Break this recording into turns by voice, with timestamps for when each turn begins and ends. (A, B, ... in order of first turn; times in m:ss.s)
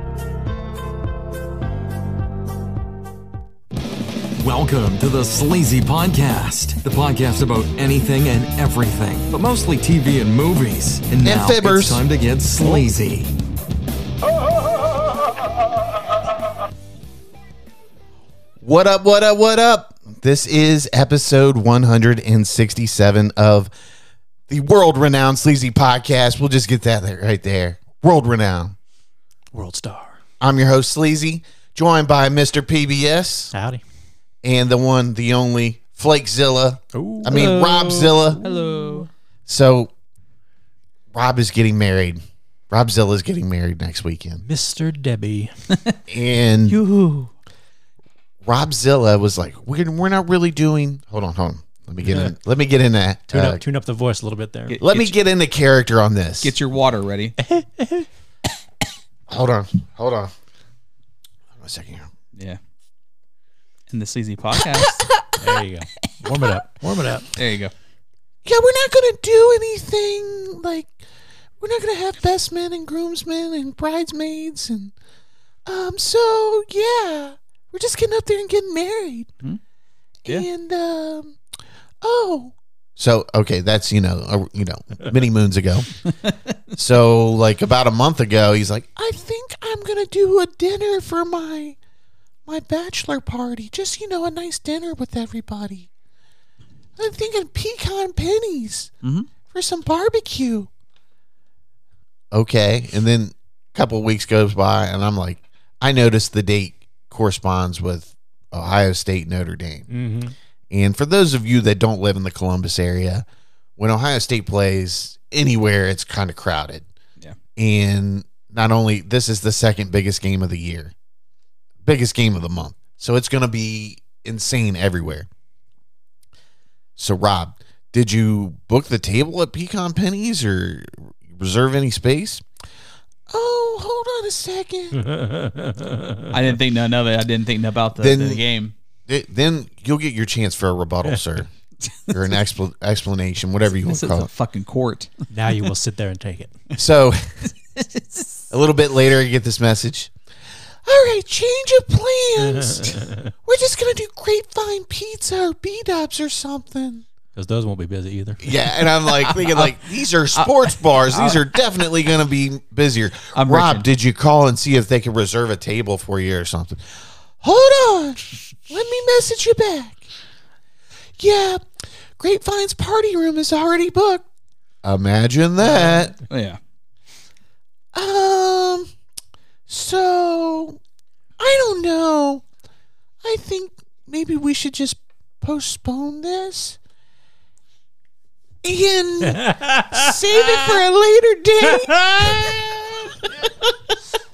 0:04.4-0:13.3 A
0:11.2-0:12.0 B
0:18.6-0:23.7 B
0:24.5-0:28.8 B
0:29.5-0:30.2 C
0:30.4-0:33.5 B
0:33.5-0:33.8 C
0:34.4-0:38.4 B
0:36.9-0:39.1 C
0:38.4-0:39.1 D
0:39.5-0:39.9 B
0:41.1-0:44.5 B
0:44.4-0:45.5 C
0:46.1-0:46.8 B
0:46.7-0:47.3 D
0:48.4-0:53.6 B
0:52.1-0:52.3 C
0:53.3-0:54.8 C
0:54.7-0:55.2 D
0:54.8-0:56.5 B
0:56.4-0:57.4 D
0:57.4-0:58.1 C
0:59.3-1:00.3 B
1:01.6-1:02.1 B
1:03.9-1:05.0 D
1:04.6-1:05.5 B
1:05.4-1:07.3 C
1:07.4-1:07.7 D
1:08.4-1:11.0 B
1:11.6-1:14.9 B
1:15.7-1:19.3 B
1:20.2-1:21.4 B
1:22.0-1:25.9 B
1:26.8-1:31.8 B
1:32.5-1:35.9 B
1:37.0-1:38.9 B
1:39.0-1:39.3 D
1:39.5-1:40.7 B
1:42.3-1:49.9 B
1:49.9-1:50.3 C
1:50.7-1:53.3 B
1:53.8-1:56.8 B
1:57.6-2:00.9 B
2:01.8-2:05.3 B
2:07.0-2:12.5 B
2:13.3-2:15.0 B
2:14.9-2:16.3 C
2:16.3-2:18.7 D
2:18.0-2:18.4 B
2:19.1-2:21.5 B
2:22.1-2:24.3 B
2:23.9-2:25.3 D
2:25.3-2:26.6 C
2:26.8-2:27.5 B
2:27.8-2:28.4 D
2:28.5-2:30.1 B
2:30.9-2:37.0 B
2:32.6-2:33.2 C
2:37.3-2:38.4 C
2:38.4-2:50.1 B
2:39.1-2:39.8 D
2:40.3-2:41.4 D
2:43.3-2:43.9 D
2:51.2-2:51.6 B
2:52.2-2:54.3 B
2:54.8-2:56.2 B
2:55.7-2:56.6 D
2:57.9-2:58.9 B
2:59.7-3:00.8 B
3:01.4-3:02.4 B
3:03.2-3:06.8 B
3:08.6-3:13.7 B
3:09.3-3:10.6 C
3:11.8-3:12.5 C